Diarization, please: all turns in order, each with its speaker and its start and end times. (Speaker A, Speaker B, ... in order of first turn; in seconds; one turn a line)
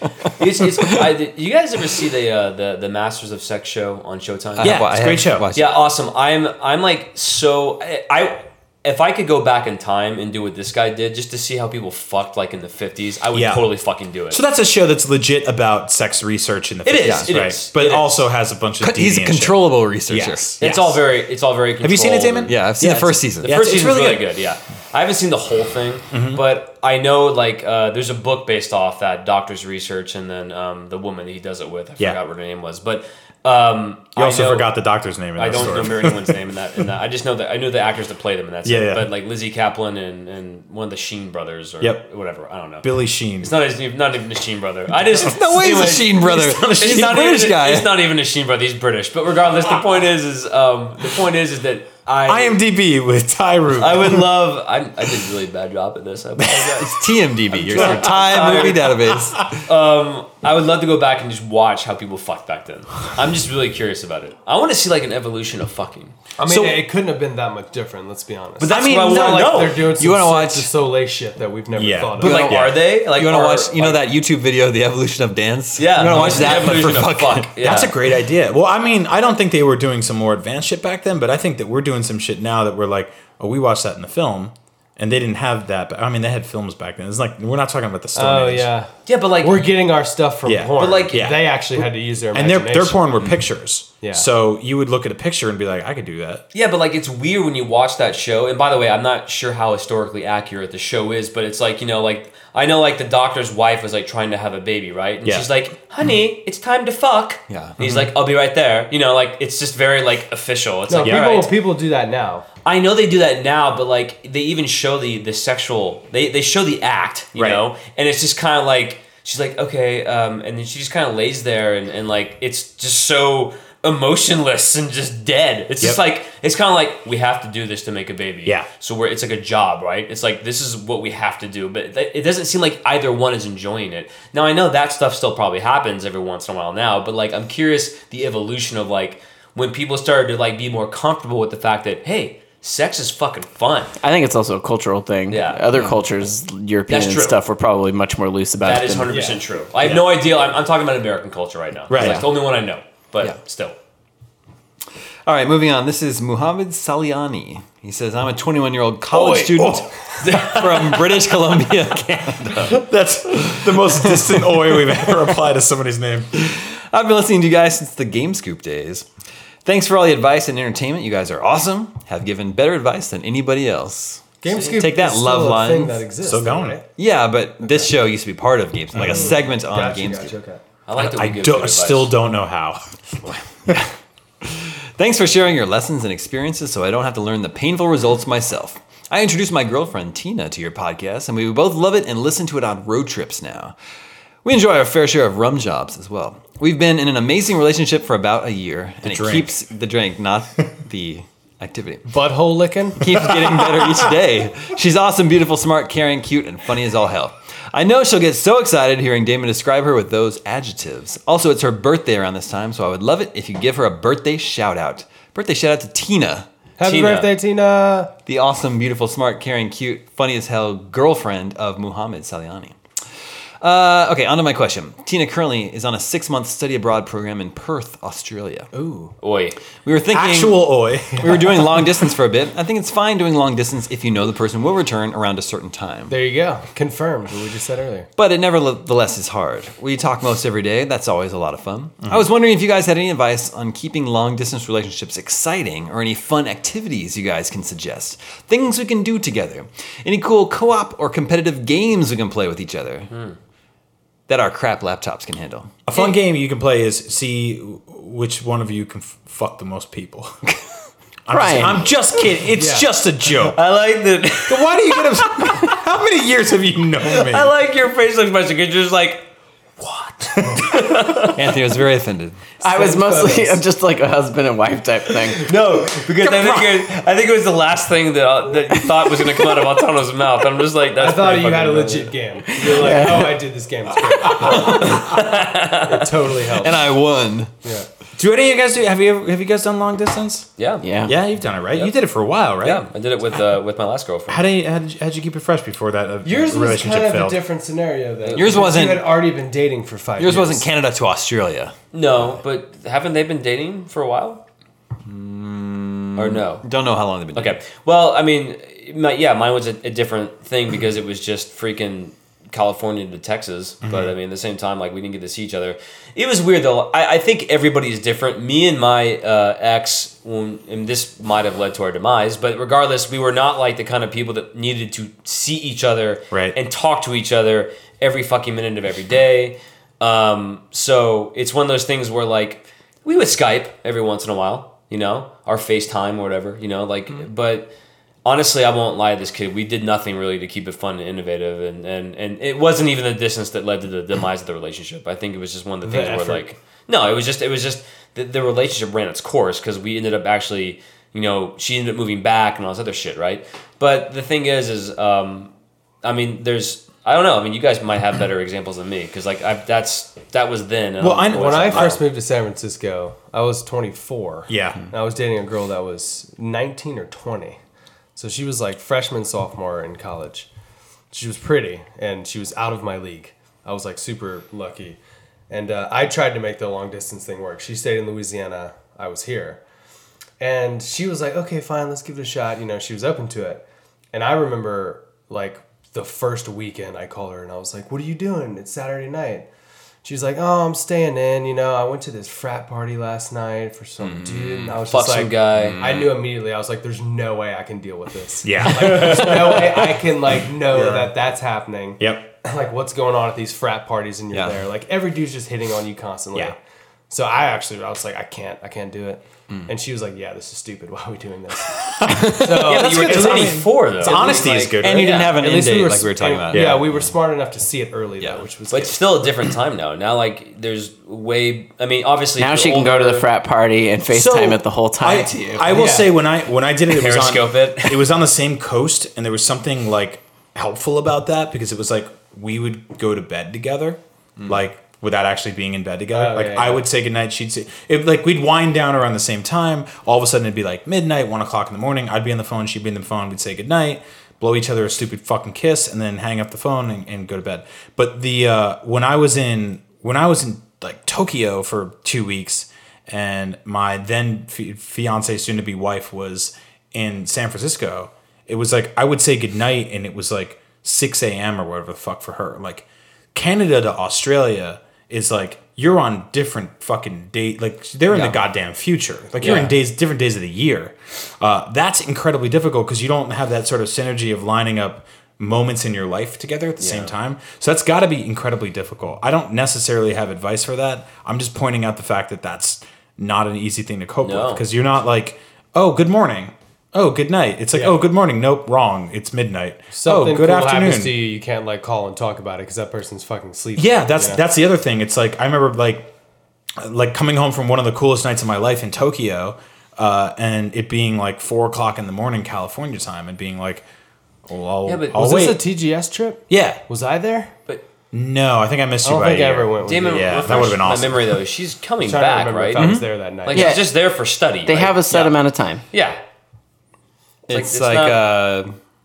Speaker A: 0.4-4.9
Speaker B: 4.6-5.8
Speaker C: 4.6-5.5
Speaker A: 5.5-14.4
Speaker C: 13.3-13.7
Speaker C: 14.3-21.0
Speaker A: 16.8-18.2
Speaker B: 17.0-17.3
Speaker B: 18.8-20.6
Speaker A: 20.6-22.6
Speaker C: 21.8-24.2
Speaker B: 22.5-23.5
Speaker A: 23.4-34.7
Speaker C: 26.1-26.4
Speaker C: 34.2-36.4
Speaker A: 35.4-42.9
Speaker C: 38.6-39.1
Speaker C: 42.8-43.5
Speaker A: 43.4-52.6
Speaker B: 45.1-48.0
Speaker C: 46.6-46.9
Speaker C: 52.2-54.3
Speaker A: 53.7-58.9
Speaker C: 56.4-56.8
Speaker B: 56.6-59.6
Speaker A: 59.5-66.2
Speaker D: 66.4-72.5
Speaker C: 66.5-66.8
Speaker A: 68.6-69.9
Speaker C: 68.7-69.3
Speaker B: 70.0-70.7
Speaker C: 71.7-72.8
Speaker A: 72.2-74.0
Speaker B: 72.2-77.6
Speaker A: 75.8-78.0
Speaker C: 77.6-88.7
Speaker D: 88.1-93.1
Speaker A: 89.0-89.7
Speaker C: 90.4-96.4
Speaker A: 90.8-91.2
Speaker D: 94.0-94.3
Speaker A: 96.5-111.5
Speaker C: 105.2-105.5
Speaker B: 107.5-107.8
Speaker C: 107.8-108.1
Speaker D: 110.9-112.5
Speaker C: 111.0-111.3
Speaker A: 112.6-143.9
Speaker C: 117.3-117.6
Speaker E: 144.0-149.2
Speaker A: 145.3-145.6
Speaker A: 146.9-147.4
Speaker A: 148.6-153.8
Speaker D: 149.1-149.4
Speaker C: 151.9-152.2
Speaker B: 155.2-162.8
Speaker C: 159.5-161.0
Speaker A: 160.2-160.6
Speaker C: 162.6-166.3
Speaker B: 163.6-164.2
Speaker B: 166.3-169.1
Speaker B: 169.6-176.0
Speaker D: 174.4-176.8
Speaker C: 176.2-176.8
Speaker B: 176.9-180.3
Speaker D: 177.6-177.9
Speaker C: 178.9-179.4
Speaker D: 178.9-180.6
Speaker A: 180.9-182.2
Speaker C: 180.9-182.8
Speaker B: 183.3-183.9
Speaker B: 184.4-193.8
Speaker B: 194.4-202.1
Speaker C: 199.0-199.5
Speaker D: 202.1-203.3
Speaker B: 203.0-216.5
Speaker D: 216.8-218.1
Speaker A: 216.8-217.3
Speaker B: 218.2-222.8
Speaker B: 223.6-228.7
Speaker D: 228.7-229.1
Speaker A: 229.2-229.6
Speaker B: 229.8-236.1
Speaker C: 230.1-231.4
Speaker D: 231.1-231.8
Speaker D: 236.1-238.1
Speaker B: 238.2-253.1
Speaker A: 253.1-253.4
Speaker B: 254.3-255.8
Speaker C: 255.8-260.4
Speaker C: 261.2-263.6
Speaker E: 261.3-261.9
Speaker D: 262.5-262.9
Speaker A: 263.3-265.7
Speaker C: 264.4-267.5
Speaker A: 267.0-269.3
Speaker A: 269.8-271.4
Speaker C: 270.3-271.2
Speaker B: 271.3-272.4
Speaker D: 272.6-273.6
Speaker E: 272.6-275.4
Speaker A: 275.3-282.9
Speaker C: 276.2-276.9
Speaker D: 281.0-285.2
Speaker E: 282.8-283.3
Speaker A: 284.3-286.2
Speaker D: 285.8-286.9
Speaker B: 286.5-287.5
Speaker C: 288.1-290.5
Speaker A: 290.6-290.9
Speaker E: 290.8-291.1
Speaker C: 291.1-292.9
Speaker A: 292.6-294.4
Speaker C: 294.3-297.4
Speaker D: 296.2-300.7
Speaker A: 298.2-298.6
Speaker B: 298.3-299.2
Speaker B: 300.2-301.7
Speaker A: 301.9-304.4
Speaker B: 305.0-307.6
Speaker A: 306.1-306.6
Speaker A: 307.3-337.7
Speaker C: 313.8-314.1
Speaker C: 326.3-326.6
Speaker A: 338.2-355.5
Speaker D: 345.8-346.4
Speaker A: 356.0-362.0
Speaker C: 361.0-362.0
Speaker D: 361.3-367.6
Speaker C: 364.5-364.9
Speaker D: 368.1-370.5
Speaker D: 371.1-375.0
Speaker D: 375.5-379.6
Speaker D: 380.4-389.5
Speaker D: 390.0-406.6
Speaker B: 394.0-394.8
Speaker A: 394.9-396.0
Speaker B: 395.6-396.1
Speaker C: 398.4-399.9
Speaker A: 398.9-399.3
Speaker C: 400.7-401.1
Speaker C: 402.0-402.3
Speaker B: 404.3-404.6
Speaker D: 407.1-414.4
Speaker C: 411.8-415.3
Speaker A: 412.3-415.4
Speaker B: 414.8-417.1
Speaker D: 415.1-419.0
Speaker C: 416.5-416.9
Speaker A: 418.7-423.2
Speaker E: 422.4-425.8
Speaker C: 424.1-491.2
Speaker D: 425.7-426.1
Speaker A: 426.9-428.1
Speaker D: 436.1-436.8
Speaker A: 469.4-469.7
Speaker A: 476.8-477.1
Speaker A: 484.2-484.6
Speaker D: 487.7-488.0
Speaker D: 489.9-494.4
Speaker C: 493.8-496.1
Speaker C: 496.8-503.8
Speaker C: 504.5-505.6
Speaker A: 504.8-505.2
Speaker D: 505.1-507.5
Speaker C: 506.5-506.8
Speaker C: 508.1-511.4
Speaker D: 509.0-510.8
Speaker A: 509.9-515.3
Speaker D: 512.0-513.8
Speaker B: 512.7-513.1
Speaker E: 513.5-513.9
Speaker E: 514.6-515.8
Speaker A: 515.9-516.2
Speaker A: 517.5-518.2
Speaker B: 517.5-518.7